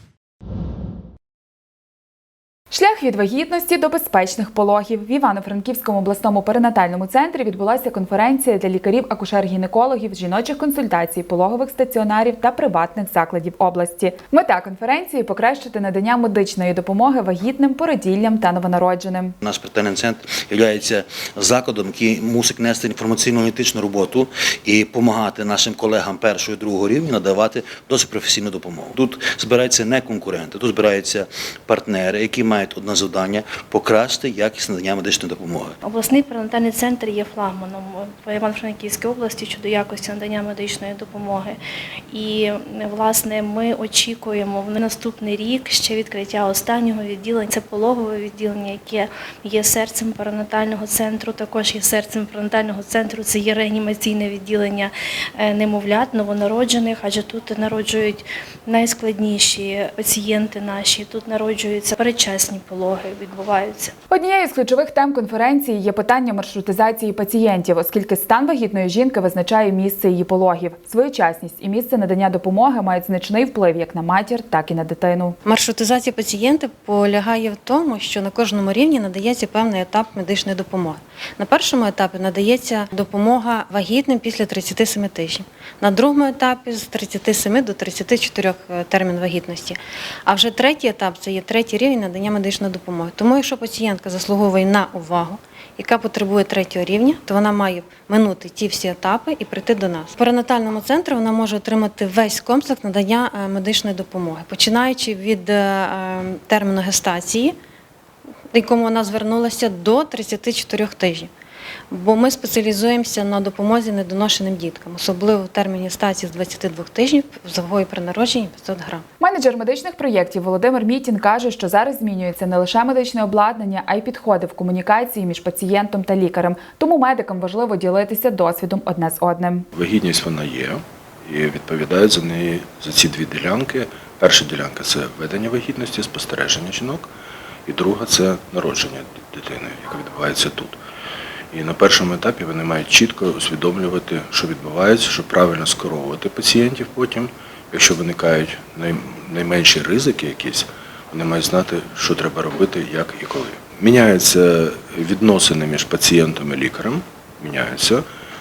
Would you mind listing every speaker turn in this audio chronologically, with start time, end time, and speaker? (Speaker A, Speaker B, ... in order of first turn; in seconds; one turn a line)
Speaker A: 2.7-19.4
Speaker B: 19.4-35.7
Speaker C: 35.8-41.6
Speaker C: 42.1-63.9
Speaker A: 64.1-75.4
Speaker D: 75.5-107.5
Speaker D: 108.5-111.3
Speaker D: 111.9-119.0
Speaker A: 119.2-129.7
Speaker E: 129.7-137.1
Speaker E: 137.7-140.8
Speaker E: 141.5-158.0